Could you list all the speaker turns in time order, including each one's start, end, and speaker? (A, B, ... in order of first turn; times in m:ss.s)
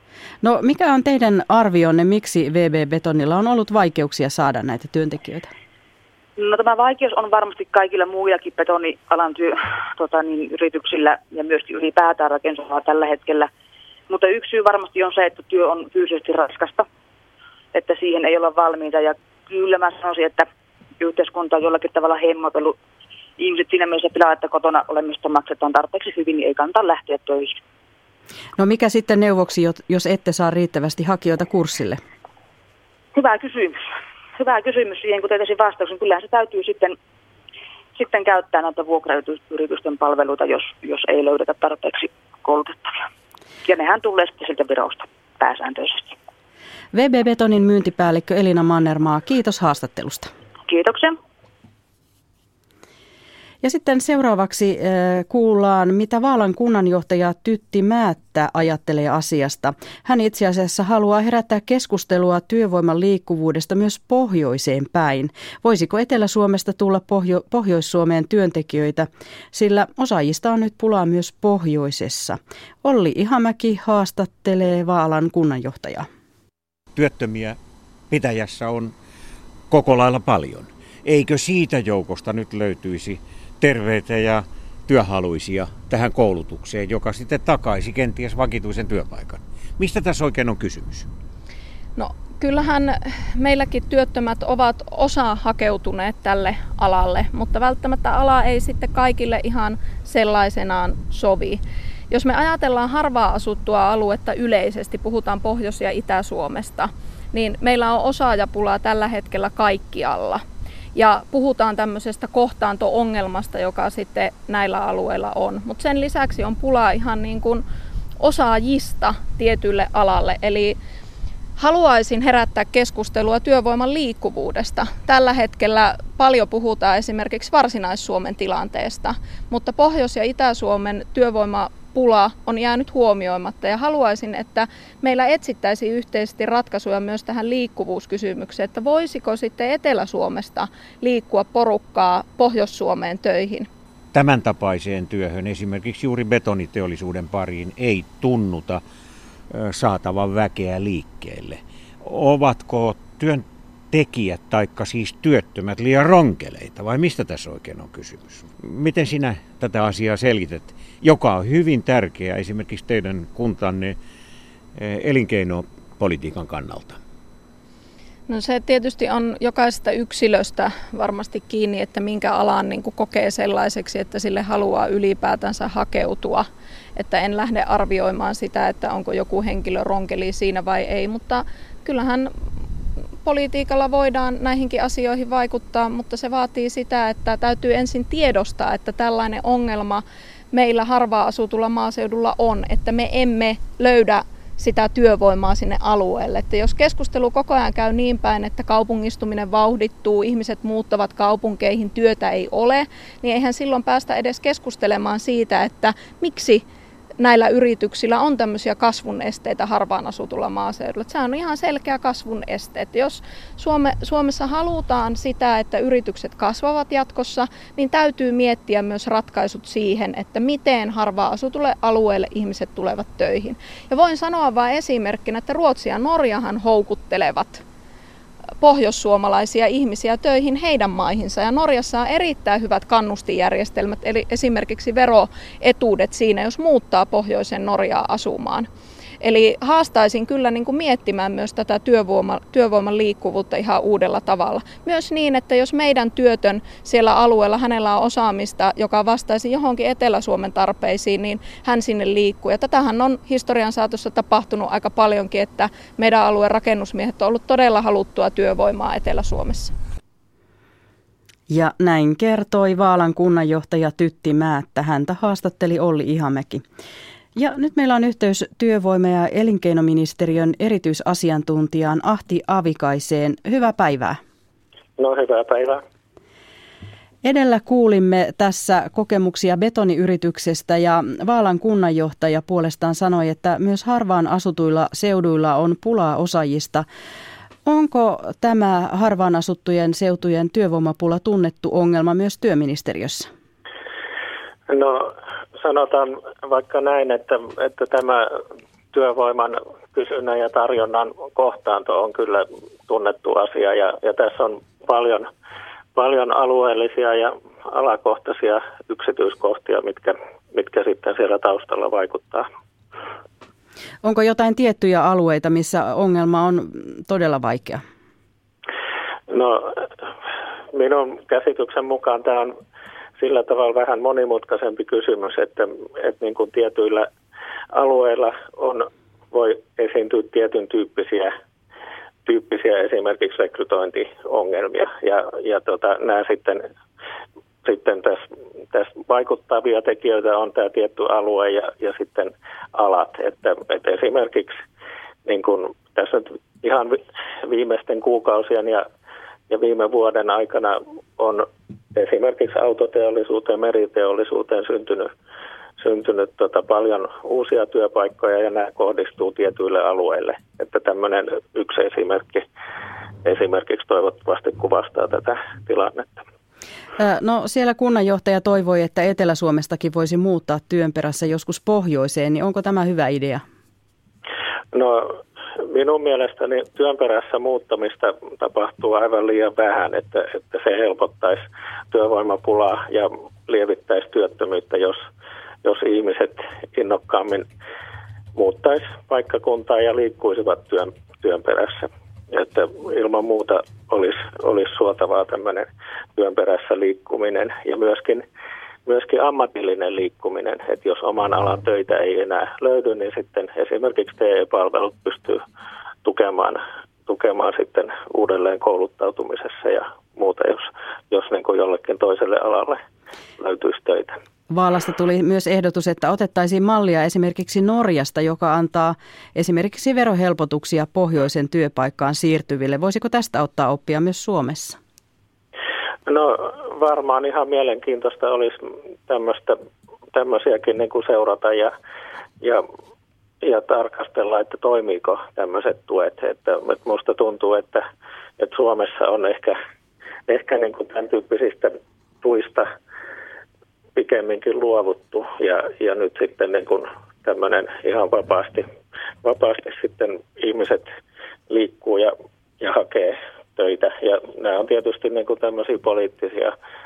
0:00.4-0:05.5 A
0:06.4-0:13.5 B
0:14.1-0:16.8 B
0:17.7-0:20.4 B
0:21.0-0:22.8 B
0:23.4-0:27.6 B
0:28.6-0:32.0 A
0:33.1-0:33.8 B
0:34.4-0:37.0 B
0:38.0-0:43.0 B
0:43.6-0:46.1 B
0:46.9-0:50.3 A
0:50.7-0:51.2 B
0:53.6-1:16.1 A
1:16.9-1:17.6 C
1:18.1-1:18.9 C
1:19.7-1:31.1 C
1:32.0-1:50.4 D
1:50.9-1:57.6 D
1:58.2-2:00.8 D
2:01.6-2:23.7 D
2:24.1-2:28.8 C
2:29.5-2:44.0 C
2:44.8-2:47.0 C
2:48.3-3:02.3 D
3:03.2-3:26.6 D
3:27.2-3:47.6 D
3:48.6-3:58.7 D
3:59.2-4:19.7 D
4:21.5-4:26.6 A
4:27.4-4:34.2 A
4:35.0-4:35.8 E
4:37.2-4:46.8 A
4:47.6-4:53.3 A
4:54.7-4:58.2 E
4:58.9-5:05.3 E
5:05.9-5:12.5 E
5:14.0-5:17.8 A
5:19.3-5:19.8 E
5:20.7-5:22.6 E
5:23.2-5:27.1 E
5:27.7-5:31.3 E
5:32.2-5:36.6 E
5:37.6-5:44.6 E
5:45.2-5:48.8 E
5:49.5-5:55.1 E
5:55.8-6:02.4 E
6:03.2-6:06.2 E
6:07.0-6:13.4 A
6:14.7-6:15.2 E
6:15.7-6:25.0 E
6:25.6-6:27.4 E
6:28.4-6:38.2 E
6:38.8-6:45.4 E
6:46.0-6:52.8 E
6:53.4-6:54.2 E
6:54.5-7:04.8 A
7:06.0-7:09.6 E
7:10.1-7:11.7 E
7:13.4-7:17.8 E
7:18.4-7:19.5 E
7:20.3-7:22.7 E
7:24.0-7:28.6 E
7:29.2-7:30.9 E
7:31.5-7:36.5 E